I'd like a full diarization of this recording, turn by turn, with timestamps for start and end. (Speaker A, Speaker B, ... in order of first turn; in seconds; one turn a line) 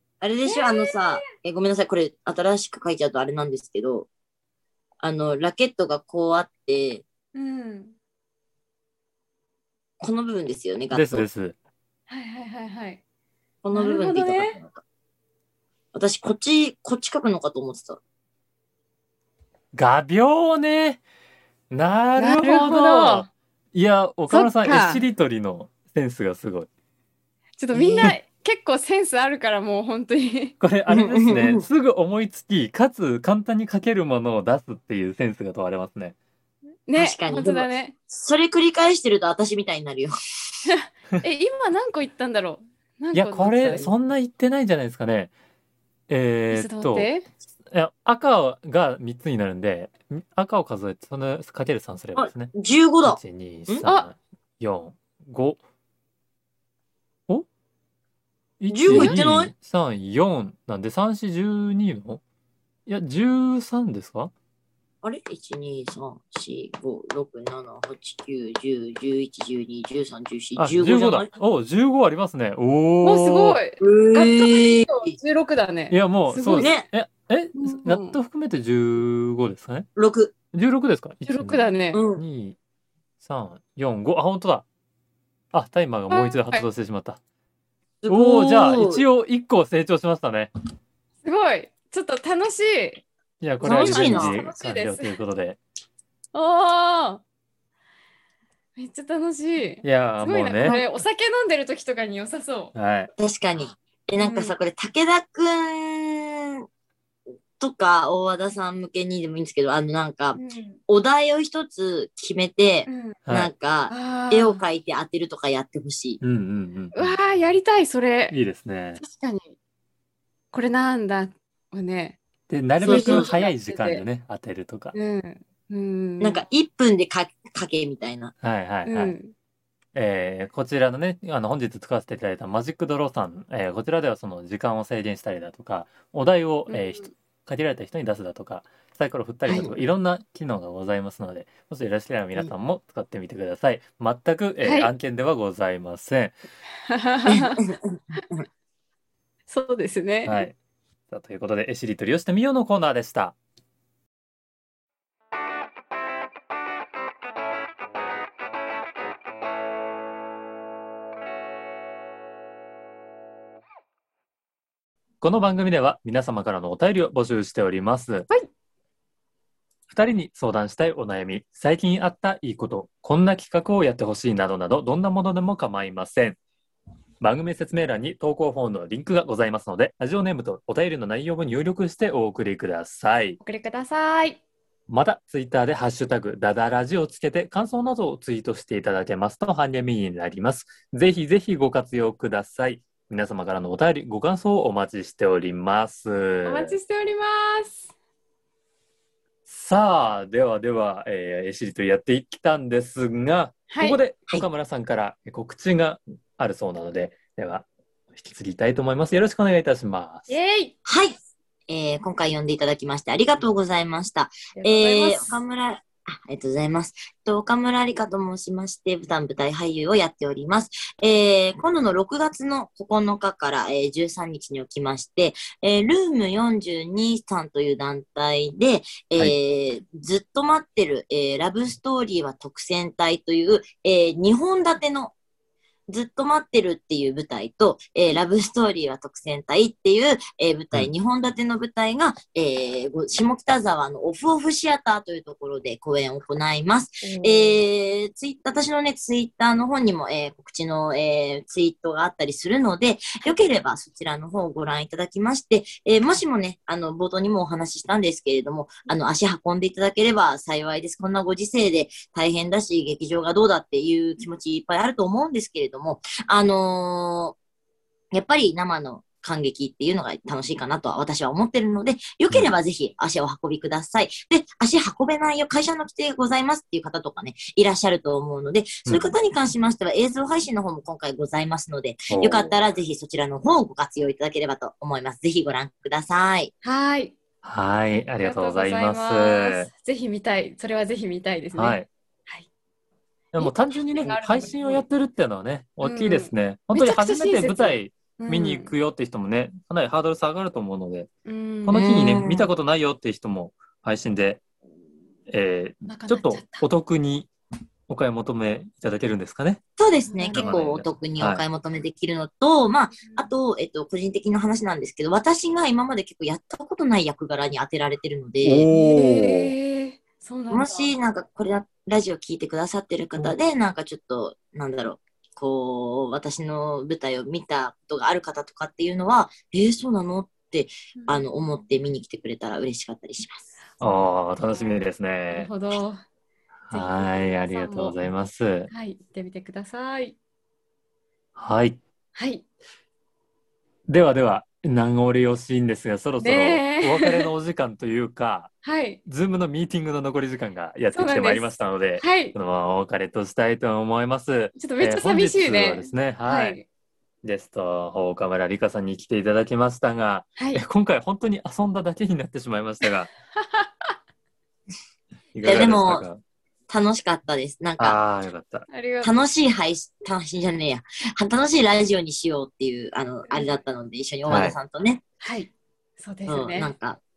Speaker A: 0.2-4.1
Speaker B: 0.5-1.3
Speaker A: 5.0-7.0
Speaker B: 7.3-8.0
Speaker A: 10.0-11.3
Speaker C: 10.9-11.6
Speaker B: 12.1-13.0
Speaker A: 13.6-14.8
Speaker B: 13.7-14.6
Speaker A: 15.9-18.0
Speaker C: 19.7-21.0
Speaker C: 21.7-26.7
Speaker B: 22.2-23.3
Speaker B: 24.3-25.0
Speaker B: 27.6-30.6
Speaker A: 27.7-28.1
Speaker C: 30.6-36.2
Speaker A: 30.9-31.6
Speaker B: 36.9-38.0
Speaker A: 37.0-40.1
Speaker B: 40.6-44.0
Speaker C: 43.1-45.3
Speaker C: 46.1-47.1
Speaker B: 46.5-47.3
Speaker C: 47.7-52.5
Speaker A: 52.2-53.9
Speaker C: 53.0-55.6
Speaker C: 58.6-62.2
Speaker A: 58.7-59.5
Speaker B: 58.9-59.2
Speaker C: 62.9-64.3
Speaker A: 65.0-71.3
Speaker C: 70.6-73.6
Speaker B: 73.0-76.7
Speaker A: 73.8-75.2
Speaker C: 75.9-79.9
Speaker A: 76.6-76.9
Speaker B: 77.5-78.2
Speaker A: 80.0-80.3
Speaker C: 80.5-82.6
Speaker B: 81.3-82.0
Speaker A: 81.9-82.2
Speaker C: 83.2-84.7
Speaker C: 85.5-87.2
Speaker B: 86.1-86.7
Speaker A: 88.0-89.0
Speaker C: 88.1-90.5
Speaker B: 91.2-93.0
Speaker C: 93.4-95.6
Speaker A: 93.6-94.4
Speaker B: 93.7-95.2
Speaker B: 96.3-97.2
Speaker B: 98.8-102.8
Speaker C: 99.8-100.8
Speaker C: 102.8-103.1
Speaker A: 103.2-106.6
Speaker B: 104.2-104.5
Speaker A: 107.6-116.2
Speaker B: 110.4-110.8
Speaker B: 112.9-113.2
Speaker C: 113.3-113.5
Speaker B: 113.9-114.6
Speaker C: 116.2-117.2
Speaker B: 116.9-118.4
Speaker C: 118.3-119.0
Speaker B: 119.0-119.5
Speaker B: 120.5-122.2
Speaker C: 122.5-124.9
Speaker B: 122.8-124.0
Speaker A: 122.8-123.3
Speaker B: 124.9-126.4
Speaker A: 126.2-128.3
Speaker C: 128.4-129.2
Speaker B: 128.8-129.3
Speaker C: 129.9-146.3
Speaker B: 136.7-137.1
Speaker B: 144.6-144.9
Speaker B: 146.9-148.2
Speaker A: 147.3-147.8
Speaker B: 149.5-150.5
Speaker C: 150.2-150.6
Speaker C: 151.1-153.4
Speaker C: 165.2-168.3
Speaker C: 169.9-176.4
Speaker C: 177.2-183.4
Speaker B: 183.4-184.4
Speaker C: 184.9-196.8
Speaker B: 196.4-197.9
Speaker C: 199.5-210.3
Speaker B: 203.7-204.0
Speaker B: 210.3-210.7
Speaker A: 210.9-211.2
Speaker A: 211.7-235.1
Speaker B: 214.6-215.4
Speaker A: 235.9-267.4
Speaker B: 247.0-247.6
Speaker A: 268.1-286.5
Speaker C: 278.9-279.2
Speaker C: 282.1-282.5
Speaker B: 286.6-287.2
Speaker C: 287.4-289.7
Speaker B: 288.2-292.5
Speaker C: 291.5-291.9
Speaker C: 293.3-301.1
Speaker B: 293.4-294.8
Speaker B: 295.8-298.7
Speaker B: 301.3-302.0
Speaker C: 301.6-304.4
Speaker A: 301.7-302.5
Speaker C: 305.3-307.3
Speaker B: 305.9-306.7
Speaker C: 307.9-309.6
Speaker A: 309.8-318.7
Speaker B: 310.1-310.6
Speaker C: 310.3-311.4
Speaker C: 318.4-319.6
Speaker B: 318.7-320.9
Speaker A: 320.5-333.5
Speaker B: 331.0-331.2
Speaker C: 333.8-335.5
Speaker B: 335.3-336.0
Speaker C: 336.7-338.7
Speaker B: 336.7-338.0
Speaker B: 338.7-340.2
Speaker C: 341.4-341.8
Speaker B: 342.1-342.5
Speaker C: 343.9-348.5
Speaker B: 346.2-347.3
Speaker B: 348.6-349.0
Speaker C: 349.1-356.6
Speaker B: 350.9-352.4
Speaker B: 354.6-356.6
Speaker C: 357.2-363.1
Speaker B: 360.4-360.6
Speaker B: 363.4-363.7
Speaker C: 365.3-366.2
Speaker A: 365.4-366.1
Speaker A: 366.7-368.0
Speaker C: 367.8-368.7
Speaker B: 368.7-369.1
Speaker A: 369.0-375.0
Speaker C: 374.3-374.6
Speaker B: 375.2-376.7
Speaker A: 376.3-377.0